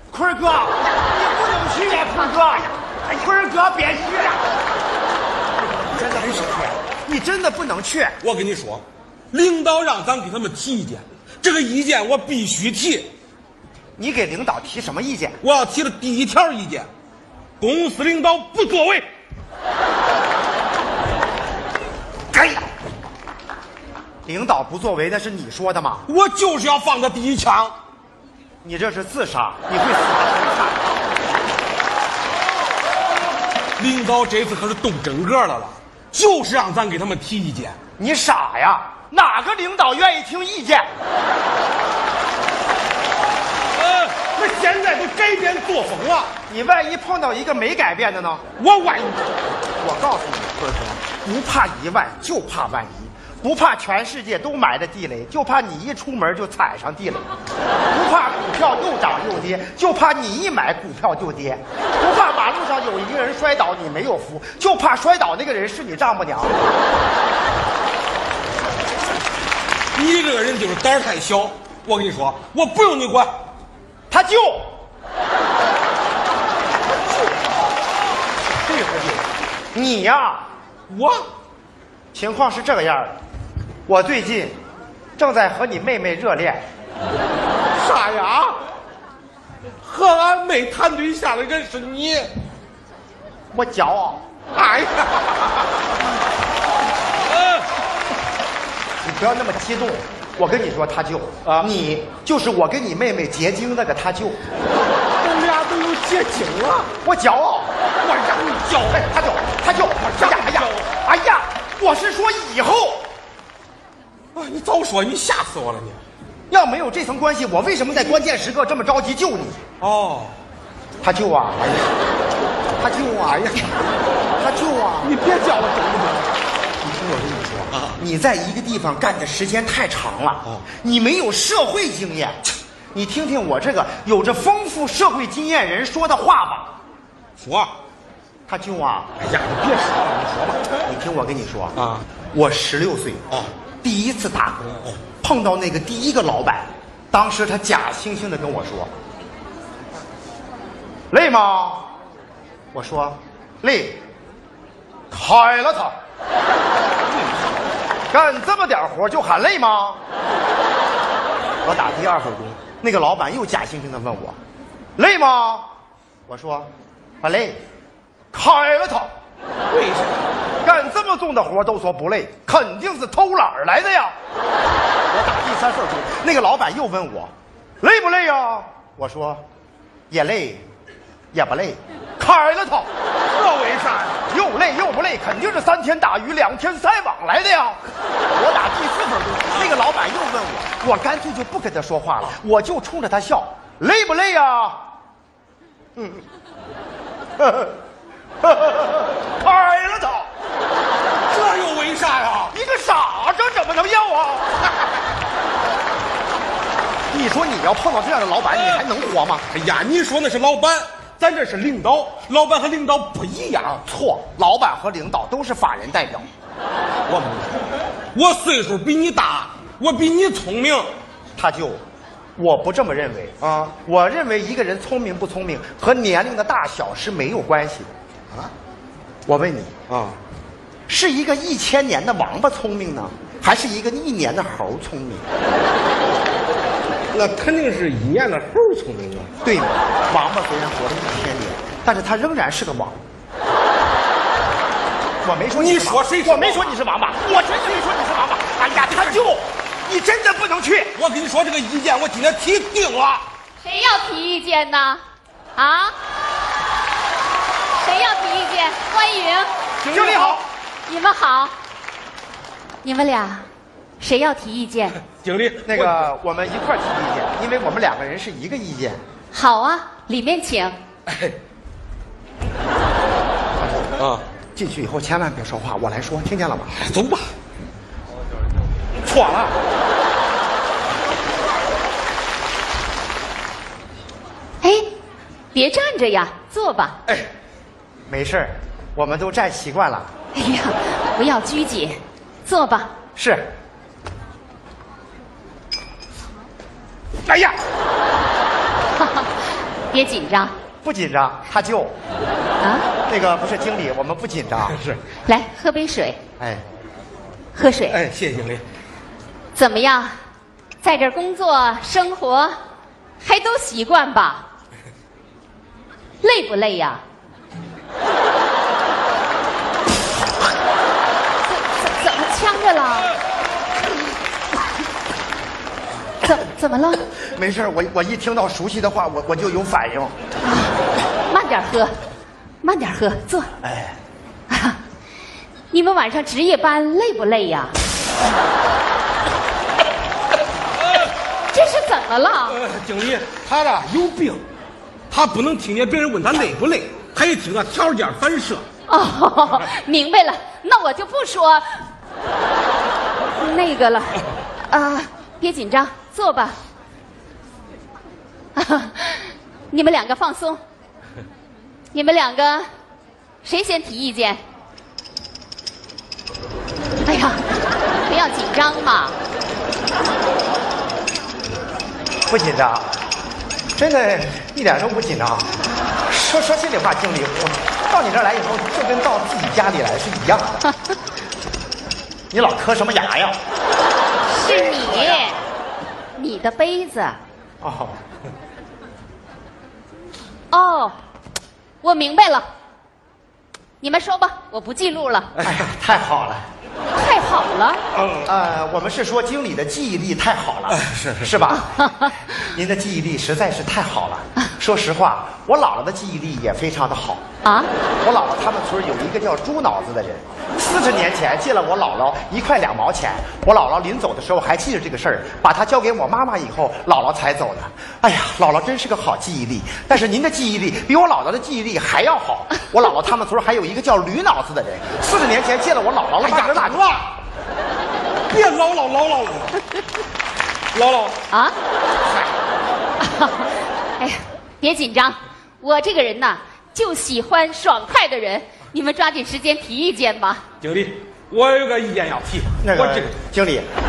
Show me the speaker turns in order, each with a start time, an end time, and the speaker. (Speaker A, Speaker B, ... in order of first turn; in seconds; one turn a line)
Speaker A: 0.1-4.4
Speaker A: 5.7-8.2
Speaker B: 8.2-13.1
Speaker A: 14.0-15.4
Speaker B: 15.4-16.9
Speaker B: 17.6-19.1
Speaker A: 24.3-26.1
Speaker B: 26.1-27.8
Speaker A: 28.6-31.0
Speaker B: 33.8-37.8
Speaker A: 38.0-40.9
Speaker B: 43.8-46.3
Speaker A: 46.5-48.4
Speaker B: 48.6-49.3
Speaker A: 49.8-57.3
Speaker A: 57.9-66.6
Speaker B: 70.0-73.3
Speaker A: 74.1-74.8
Speaker B: 78.5-79.2
Speaker A: 79.7-80.5
Speaker B: 80.9-81.2
Speaker A: 82.1-83.2
Speaker A: 83.9-84.6
Speaker A: 85.2-86.7
Speaker B: 87.8-88.6
Speaker B: 89.8-92.3
Speaker A: 93.5-94.2
Speaker B: 94.5-95.7
Speaker A: 99.0-104.4
Speaker B: 105.2-106.9
Speaker A: 107.0-107.7
Speaker B: 108.0-109.0
Speaker A: 108.9-113.1
Speaker B: 109.9-110.9
Speaker B: 114.4-116.0
Speaker A: 116.5-119.6
Speaker B: 119.8-120.3
Speaker A: 121.0-121.9
Speaker A: 122.8-123.7
Speaker A: 124.4-125.1
Speaker B: 125.0-126.3
Speaker A: 126.8-136.8
Speaker B: 127.7-128.0
Speaker B: 137.4-137.7
Speaker A: 138.5-139.1
Speaker B: 139.2-140.7
Speaker A: 140.8-141.8
Speaker B: 141.8-142.1
Speaker A: 142.3-143.3
Speaker A: 143.8-148.9
Speaker A: 151.1-151.9
Speaker A: 152.7-154.0
Speaker A: 155.1-155.9
Speaker A: 158.1-160.0
Speaker A: 161.6-164.4
Speaker A: 165.0-165.7
Speaker A: 166.3-166.7
Speaker A: 167.2-167.6
Speaker A: 168.3-169.1
Speaker B: 169.7-170.3
Speaker A: 170.6-174.2
Speaker A: 175.1-179.4
Speaker A: 180.1-180.7
Speaker A: 181.3-182.9
Speaker B: 183.3-184.2
Speaker A: 184.3-194.8
Speaker A: 196.0-196.2
Speaker A: 197.4-197.8
Speaker A: 198.4-200.3
Speaker B: 201.3-202.6
Speaker A: 202.5-204.7
Speaker A: 207.1-209.5
Speaker B: 209.5-213.8
Speaker A: 213.8-216.3
Speaker B: 217.1-217.6
Speaker B: 218.2-220.9
Speaker A: 221.4-221.8
Speaker A: 222.4-227.9
Speaker A: 229.3-229.8
Speaker B: 229.9-230.2
Speaker A: 230.9-235.2
Speaker B: 237.1-239.3
Speaker A: 239.4-243.0
Speaker A: 245.2-251.0
Speaker B: 245.5-246.8
Speaker B: 250.9-253.3
Speaker C: 253.6-255.0
Speaker C: 255.6-255.9
Speaker C: 257.7-259.5
Speaker B: 259.8-260.4
Speaker A: 259.9-260.5
Speaker C: 260.9-261.5
Speaker C: 262.8-263.5
Speaker C: 264.0-265.0
Speaker B: 265.2-266.1
Speaker A: 265.6-269.0
Speaker C: 269.3-270.8
Speaker B: 271.1-271.4
Speaker A: 273.6-274.0
Speaker B: 274.0-274.2
Speaker A: 274.6-276.8
Speaker B: 276.8-277.3
Speaker B: 279.0-279.6
Speaker C: 285.5-287.0
Speaker A: 288.1-290.1
Speaker C: 290.3-292.9
Speaker A: 293.2-293.5
Speaker B: 297.3-297.6
Speaker C: 299.0-299.3
Speaker C: 299.9-300.5
Speaker A: 300.8-301.9
Speaker C: 302.6-302.9
Speaker A: 303.1-304.8
Speaker B: 304.7-305.0
Speaker C: 305.3-306.2
Speaker C: 307.5-308.0
Speaker B: 307.9-308.6
Speaker C: 309.6-310.2
Speaker C: 310.8-312.6
Speaker C: 313.2-314.5
Speaker C: 316.2-317.0
Speaker C: 321.5-323.1
Speaker C: 326.2-327.0
Speaker A: 327.2-330.1
Speaker C: 330.4-332.0
Speaker C: 332.6-333.5
Speaker A: 333.6-333.9
Speaker C: 334.5-334.8
Speaker C: 335.7-337.7
Speaker C: 341.5-342.6
Speaker B: 342.5-344.4
Speaker B: 345.1-348.6
Speaker C: 348.9-351.7
Speaker C: 353.3-356.6
Speaker C: 358.6-360.6
Speaker C: 361.9-362.7
Speaker C: 363.4-364.4
Speaker C: 367.1-369.2
Speaker A: 372.3-372.9
Speaker A: 373.8-375.5
Speaker A: 376.1-380.6
Speaker A: 382.3-383.4
Speaker C: 384.2-385.4
Speaker A: 384.5-385.3
Speaker C: 386.2-387.2
Speaker A: 387.6-388.0
Speaker C: 390.5-391.0
Speaker C: 391.8-392.5
Speaker C: 393.8-395.3
Speaker A: 395.4-396.5
Speaker C: 396.9-397.8
Speaker B: 398.0-398.2
Speaker A: 398.2-407.2
Speaker B: 400.7-401.3
Speaker C: 401.8-402.1
Speaker C: 407.4-407.7
Speaker A: 408.0-426.9
Speaker B: 426.2-427.1
Speaker B: 428.3-429.6
Speaker B: 430.7-431.2
Speaker C: 431.3-431.6
Speaker C: 433.0-440.4
Speaker B: 440.6-443.1
Speaker A: 442.6-443.7